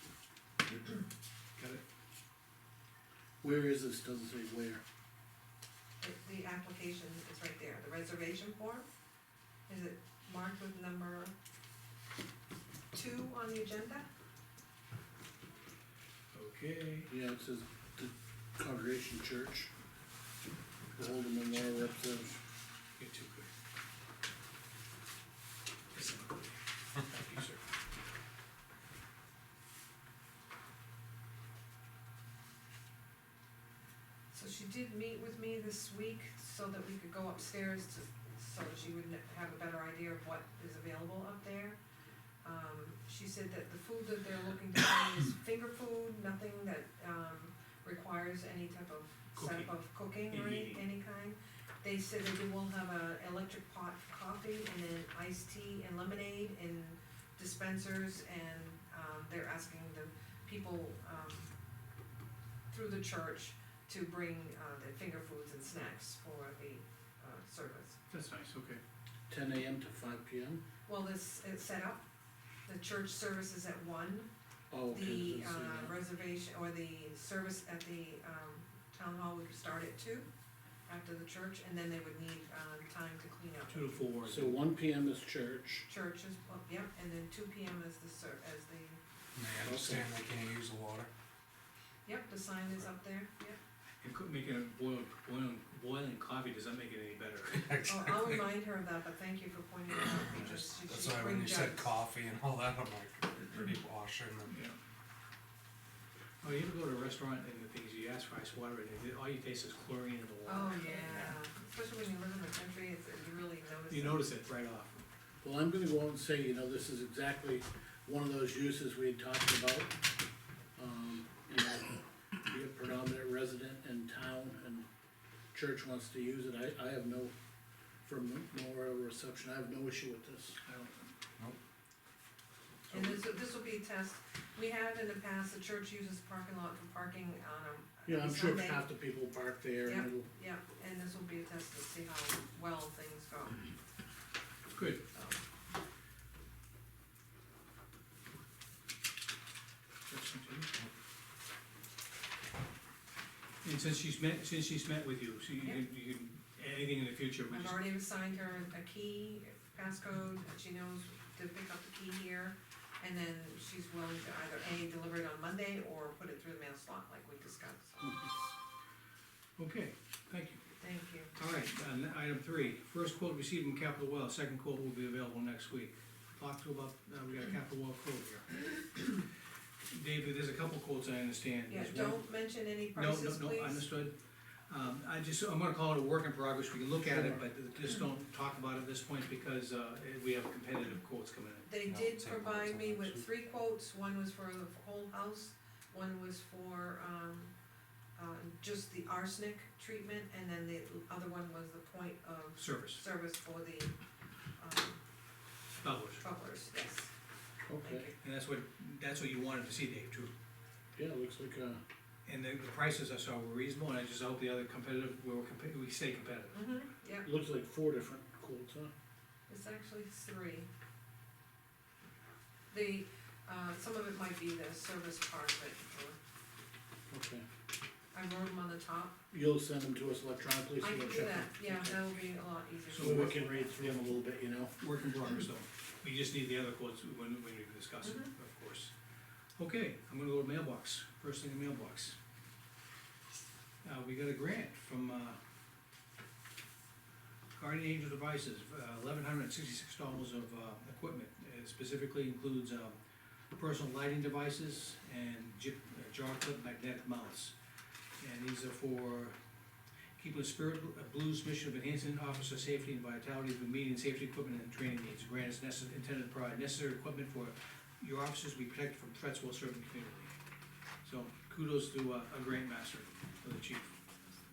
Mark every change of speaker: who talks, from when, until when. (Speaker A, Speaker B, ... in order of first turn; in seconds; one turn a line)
Speaker A: 1.6-1.8
Speaker B: 3.4-4.8
Speaker C: 6.0-8.9
Speaker C: 9.7-11.3
Speaker C: 12.9-14.1
Speaker A: 16.3-17.1
Speaker B: 17.1-19.7
Speaker B: 20.9-22.4
Speaker A: 23.0-23.5
Speaker A: 25.9-27.6
Speaker C: 34.3-41.8
Speaker C: 42.4-61.5
Speaker A: 49.3-49.7
Speaker A: 50.3-50.9
Speaker C: 62.7-68.0
Speaker A: 68.1-68.8
Speaker B: 69.3-70.6
Speaker C: 70.9-72.0
Speaker C: 72.7-74.3
Speaker B: 74.7-75.9
Speaker C: 74.9-80.3
Speaker C: 80.9-83.9
Speaker A: 83.7-84.6
Speaker B: 84.2-85.8
Speaker C: 85.9-89.0
Speaker D: 89.3-91.1
Speaker B: 89.6-90.1
Speaker C: 92.0-93.6
Speaker A: 94.0-97.7
Speaker D: 97.5-98.5
Speaker C: 97.8-101.9
Speaker D: 100.3-104.6
Speaker A: 104.5-104.8
Speaker A: 106.4-111.3
Speaker C: 110.4-114.3
Speaker A: 113.9-115.0
Speaker B: 115.4-119.9
Speaker B: 120.8-124.8
Speaker B: 125.5-127.3
Speaker B: 128.0-130.6
Speaker A: 130.6-131.1
Speaker A: 132.8-133.2
Speaker C: 132.9-138.8
Speaker B: 138.1-140.3
Speaker C: 139.8-143.6
Speaker A: 144.7-145.0
Speaker C: 145.1-145.4
Speaker A: 150.1-150.7
Speaker A: 153.6-157.8
Speaker C: 157.5-168.5
Speaker A: 169.6-170.6
Speaker C: 170.8-171.3
Speaker A: 171.3-179.1
Speaker A: 179.9-182.2
Speaker C: 181.7-183.8
Speaker A: 182.9-184.1
Speaker A: 184.7-191.7
Speaker B: 187.1-187.4
Speaker C: 191.7-197.5
Speaker D: 191.8-193.3
Speaker C: 198.2-203.9
Speaker A: 202.6-203.0
Speaker C: 204.6-205.0
Speaker A: 205.8-206.2
Speaker C: 206.2-207.1
Speaker B: 207.7-208.1
Speaker C: 207.8-208.1
Speaker A: 208.2-210.3
Speaker B: 210.9-211.8
Speaker A: 212.2-216.6
Speaker C: 216.5-217.3
Speaker B: 217.2-218.9
Speaker C: 219.5-220.7
Speaker C: 222.7-226.2
Speaker B: 227.1-227.4
Speaker C: 228.1-229.2
Speaker B: 229.3-232.0
Speaker C: 230.8-233.9
Speaker A: 232.9-234.2
Speaker B: 233.0-234.7
Speaker A: 234.8-238.9
Speaker A: 239.6-242.2
Speaker A: 243.8-245.4
Speaker A: 247.5-252.9
Speaker A: 253.5-257.5
Speaker A: 258.2-259.4
Speaker A: 260.2-270.3
Speaker A: 271.0-273.9